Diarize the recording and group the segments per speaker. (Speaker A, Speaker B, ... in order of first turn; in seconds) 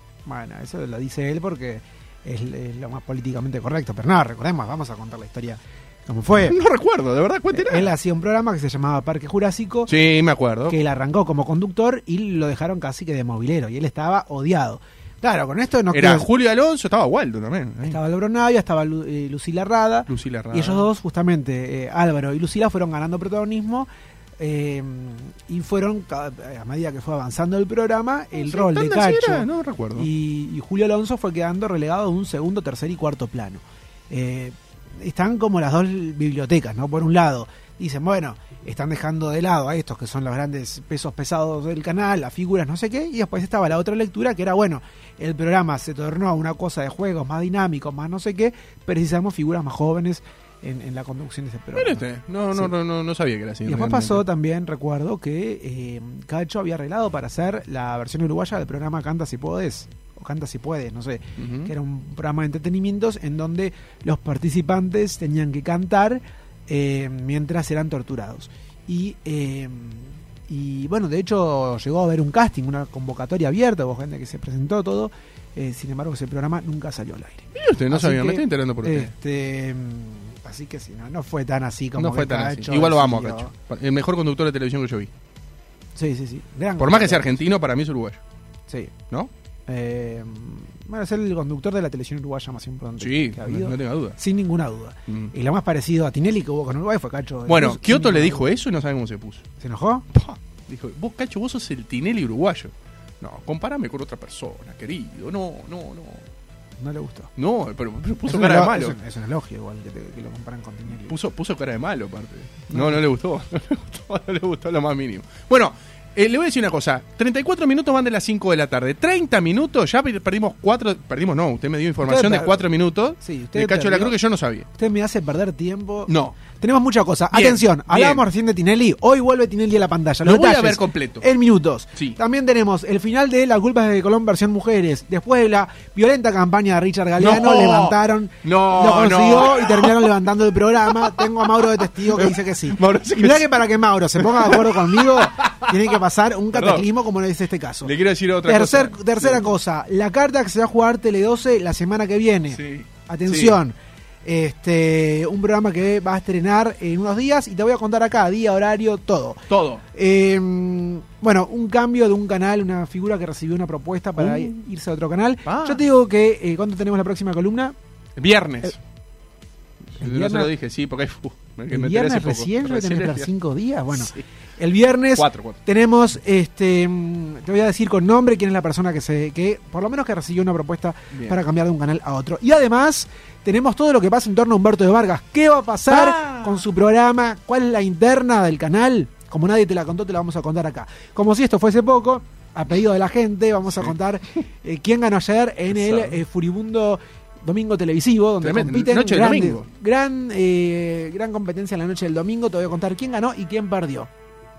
Speaker A: 0.2-6.6, 7.5-9.9, 10.7-16.3, 17.8-52.7, 53.6-83.5, 86.0-87.3, 89.7-98.4, 99.6-100.0, 106.8-107.3, 108.2-111.2, 112.7-113.0, 122.0-122.6, 123.2-124.2, 124.7-167.7, 170.0-170.5, 171.7-204.1
Speaker B: 6.3-7.9, 9.9-10.8, 15.9-18.0, 20.1-20.9, 28.4-30.1, 51.8-54.2, 61.4-61.7, 77.5-79.1, 82.0-85.1, 86.8-88.2, 93.0-94.2, 95.1-95.3, 97.5-99.4, 100.1-106.3, 107.3-109.0, 111.1-124.7, 126.1-126.3, 127.3-128.2, 130.2-131.3, 137.2-140.2, 140.8-146.0, 146.5-146.9, 147.8-149.5, 152.5-153.6, 159.5-159.8, 164.2-164.5, 165.4-165.8, 168.2-168.8, 169.9-173.3, 173.9-174.2, 175.1-175.6, 181.1-181.4, 185.9-186.6, 195.7-196.2, 198.4-199.7